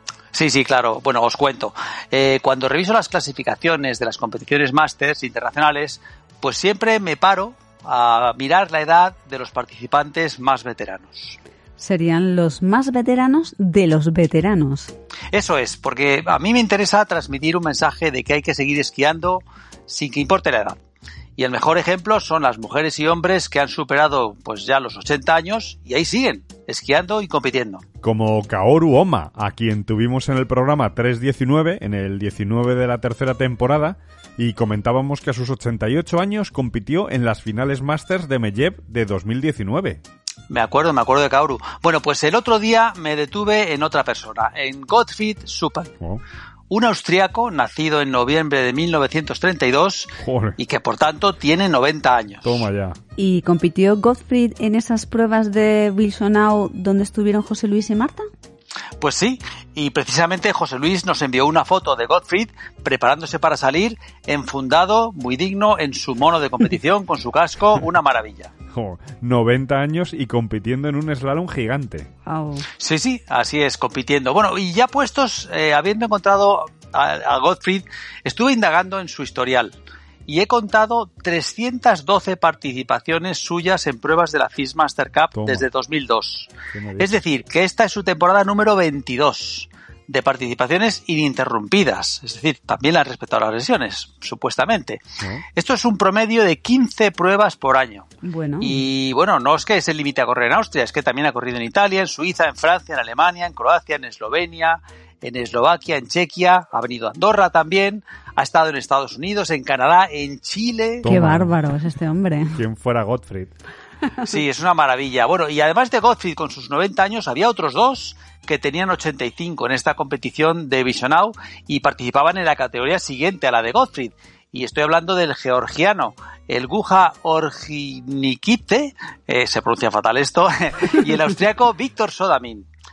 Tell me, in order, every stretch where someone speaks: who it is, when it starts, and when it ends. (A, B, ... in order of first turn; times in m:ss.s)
0:00.3-0:11.4 A
0:11.8-0:14.9 B
0:15.3-0:20.8 A
0:21.4-0:27.8 A
0:28.0-0:40.0 C
0:40.5-0:45.9 A
0:46.7-0:52.6 A
0:50.2-0:50.6 C
0:52.4-0:53.0 C
0:53.2-0:58.3 B
0:59.0-1:08.5 A
1:08.7-1:12.1 C
1:12.2-1:12.6 B
1:12.8-1:19.7 A
1:20.3-1:35.0 A
1:25.3-1:25.6 C
1:26.7-1:27.2 C
1:35.6-1:38.1 A
1:38.2-1:38.8 B
1:38.6-1:51.0 A
1:51.0-1:51.5 C
1:51.0-1:52.6 B
1:52.5-1:53.5 C
1:54.2-2:12.7 A